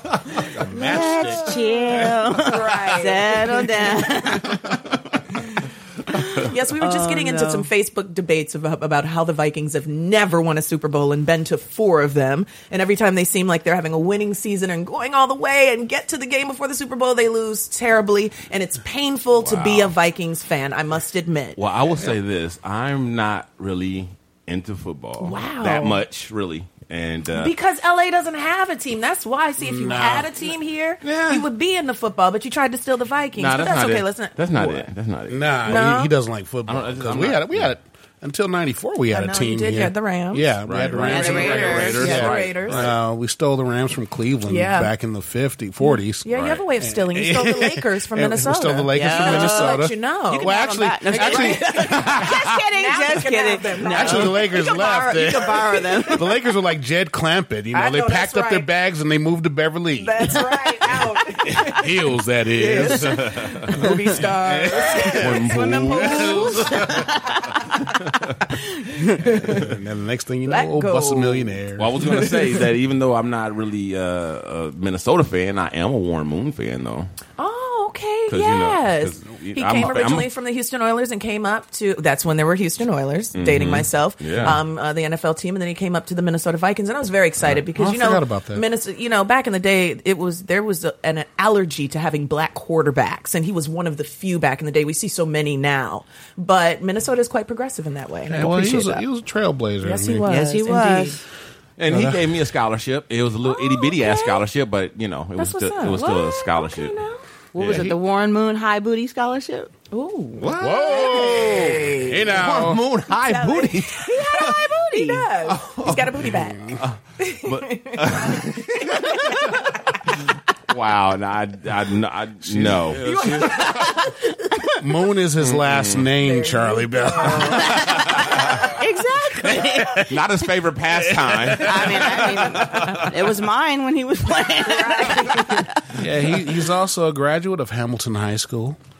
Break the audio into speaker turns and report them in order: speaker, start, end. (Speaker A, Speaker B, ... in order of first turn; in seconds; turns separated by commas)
Speaker A: 0.3-2.0, Speaker B: 0.7-1.5, Speaker C: 0.7-4.8, Speaker D: 2.4-3.6, Speaker C: 6.1-7.7, Speaker D: 6.5-21.6, Speaker A: 19.4-19.9, Speaker A: 21.6-27.5, Speaker D: 25.2-26.0, Speaker D: 27.4-34.8, Speaker B: 29.6-30.3, Speaker A: 31.0-31.4, Speaker A: 33.4-35.8, Speaker B: 35.3-52.5, Speaker D: 35.7-36.1, Speaker A: 36.7-37.7, Speaker D: 39.1-40.5, Speaker A: 40.6-42.9, Speaker C: 41.0-42.3, Speaker D: 41.1-42.8, Speaker D: 44.5-44.9, Speaker D: 45.8-54.7, Speaker A: 46.3-46.6, Speaker C: 48.9-56.3, Speaker B: 53.9-60.7, Speaker D: 57.7-58.7, Speaker D: 60.0-61.9, Speaker B: 61.5-66.8, Speaker D: 62.5-65.4, Speaker A: 62.9-63.6, Speaker A: 65.1-67.0, Speaker C: 65.2-67.6, Speaker D: 69.2-69.6, Speaker B: 69.4-72.1, Speaker D: 70.5-72.4, Speaker A: 71.8-77.1, Speaker D: 77.4-99.0, Speaker A: 78.3-80.3, Speaker A: 83.3-84.6, Speaker B: 87.5-88.6, Speaker B: 98.2-100.3, Speaker D: 99.8-101.2, Speaker C: 100.2-101.2, Speaker A: 101.8-107.0, Speaker B: 101.9-102.2, Speaker D: 103.5-104.4, Speaker D: 105.4-107.2, Speaker C: 107.5-109.7, Speaker A: 107.6-108.0, Speaker D: 109.9-112.4, Speaker A: 110.4-114.6, Speaker B: 110.6-112.8, Speaker D: 113.2-119.6, Speaker C: 114.6-115.2, Speaker A: 115.5-119.4, Speaker B: 116.3-116.8, Speaker A: 120.7-124.0, Speaker B: 122.4-123.3, Speaker D: 123.0-124.0, Speaker C: 123.5-124.6, Speaker B: 124.8-127.8, Speaker A: 125.4-126.1, Speaker D: 126.2-127.8, Speaker C: 127.3-130.0, Speaker A: 127.9-128.5, Speaker B: 129.4-130.1, Speaker A: 130.0-133.1, Speaker B: 131.0-132.8, Speaker C: 131.6-135.8, Speaker D: 134.6-135.7, Speaker B: 135.9-138.8